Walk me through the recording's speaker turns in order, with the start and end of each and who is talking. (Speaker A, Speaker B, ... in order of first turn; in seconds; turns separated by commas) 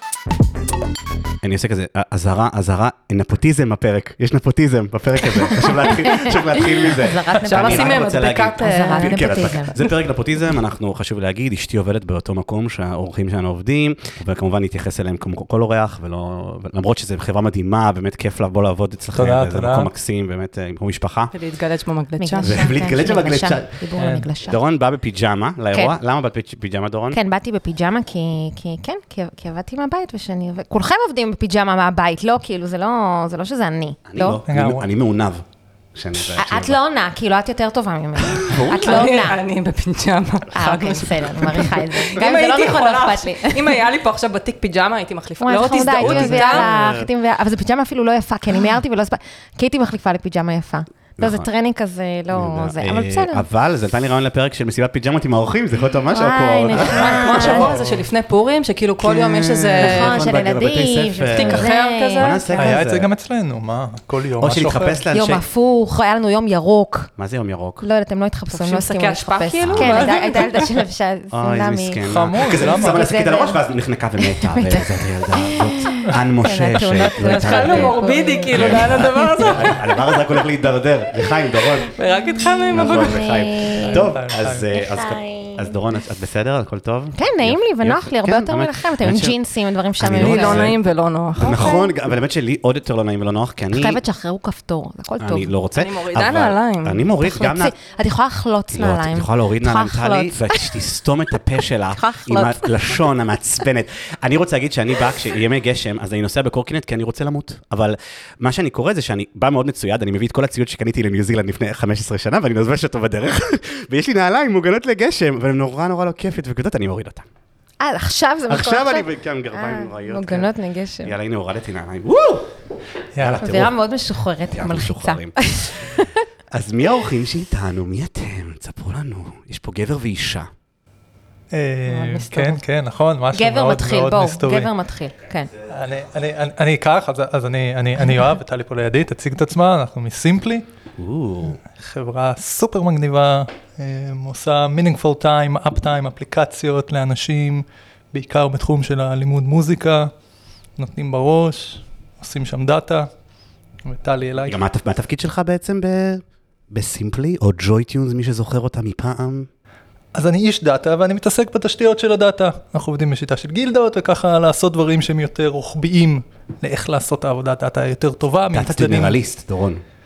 Speaker A: 1.4-21.3, Speaker B: 5.8-9.7, Speaker C: 7.4-9.9, Speaker D: 19.1-19.9, Speaker C: 21.3-22.7, Speaker B: 22.2-24.6, Speaker A: 22.4-23.7, Speaker D: 24.0-24.3, Speaker A: 24.4-27.2, Speaker B: 27.1-34.4, Speaker A: 34.1-36.8, Speaker D: 34.5-34.9, Speaker B: 36.4-39.4, Speaker A: 38.3-39.3, Speaker C: 38.4-46.7, Speaker B: 40.5-43.8, Speaker B: 45.4-53.4, Speaker A: 45.8-47.1, Speaker A: 51.2-51.5, Speaker A: 52.3-58.0, Speaker B: 56.1-57.7, Speaker C: 56.7-60.2, Speaker A: 59.0-63.1, Speaker B: 59.8-62.7, Speaker C: 61.3-62.5, Speaker D: 62.6-65.0, Speaker A: 64.4-65.4, Speaker B: 65.1-67.1, Speaker A: 67.2-67.8, Speaker B: 67.8-73.6, Speaker C: 68.5-70.7, Speaker A: 69.6-70.2, Speaker A: 71.3-81.9, Speaker D: 72.0-73.0, Speaker B: 74.2-79.4, Speaker C: 76.8-80.3, Speaker C: 81.8-83.2, Speaker B: 82.5-84.1, Speaker A: 82.7-89.4, Speaker D: 83.8-84.7, Speaker B: 84.7-85.7, Speaker B: 87.1-90.7, Speaker A: 90.0-90.8, Speaker C: 90.2-91.9, Speaker A: 91.4-94.0, Speaker B: 91.4-91.9, Speaker B: 93.7-95.5, Speaker A: 95.2-97.7, Speaker C: 95.8-97.1, Speaker B: 97.2-100.8, Speaker A: 98.7-117.3, Speaker B: 101.9-103.0, Speaker B: 117.8-121.1, Speaker A: 118.5-120.5, Speaker A: 121.0-122.5, Speaker D: 123.2-123.5, Speaker A: 123.2-123.8, Speaker B: 123.4-126.2, Speaker A: 124.5-126.0, Speaker A: 126.5-130.5, Speaker D: 131.5-134.7, Speaker B: 131.9-132.6, Speaker B: 133.3-135.5, Speaker D: 135.7-140.7, Speaker A: 141.0-141.6, Speaker D: 141.8-150.1, Speaker D: 150.8-153.1, Speaker D: 153.8-154.6, Speaker A: 154.4-159.5, Speaker D: 160.1-169.2, Speaker A: 168.5-169.8